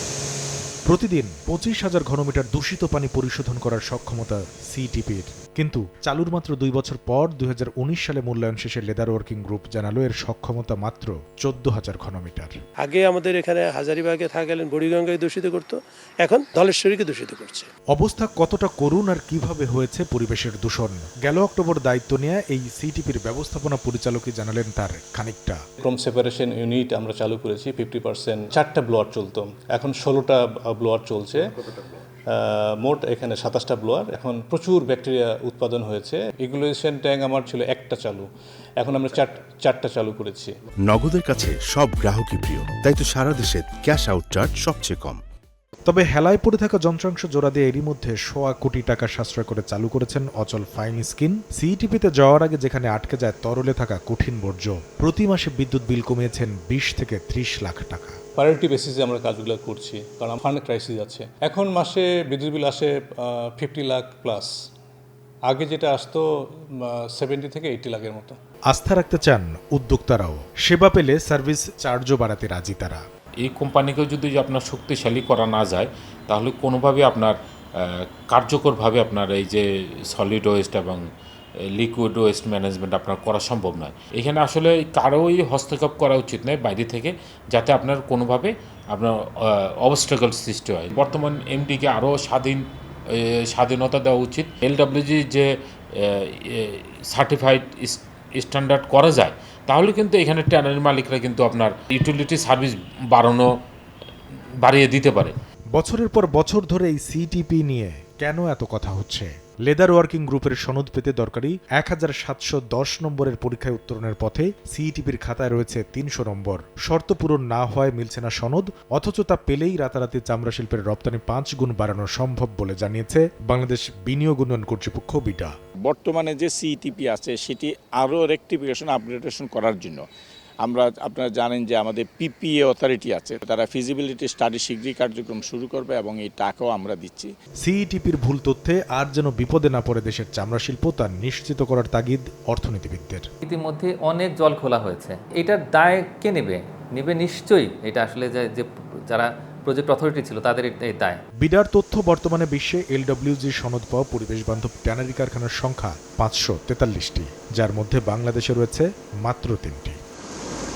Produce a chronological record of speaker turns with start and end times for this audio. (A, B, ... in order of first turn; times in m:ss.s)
0:00.9-0:12.5 A
0:12.8-0:17.7 B
0:17.9-0:25.6 A
0:25.8-0:38.3 C
0:38.8-0:40.5 C
0:40.8-0:45.2 D
0:45.9-0:58.2 A
0:58.4-1:04.7 C
1:05.4-1:08.4 C
1:08.7-1:13.0 A
1:13.4-1:21.0 E
1:21.8-1:43.5 E
1:44.6-1:45.3 E
1:45.8-2:05.5 A
2:05.8-2:10.0 F
2:10.6-2:17.3 F
2:17.6-2:23.2 A
2:23.4-2:31.2 G
2:31.4-2:40.0 A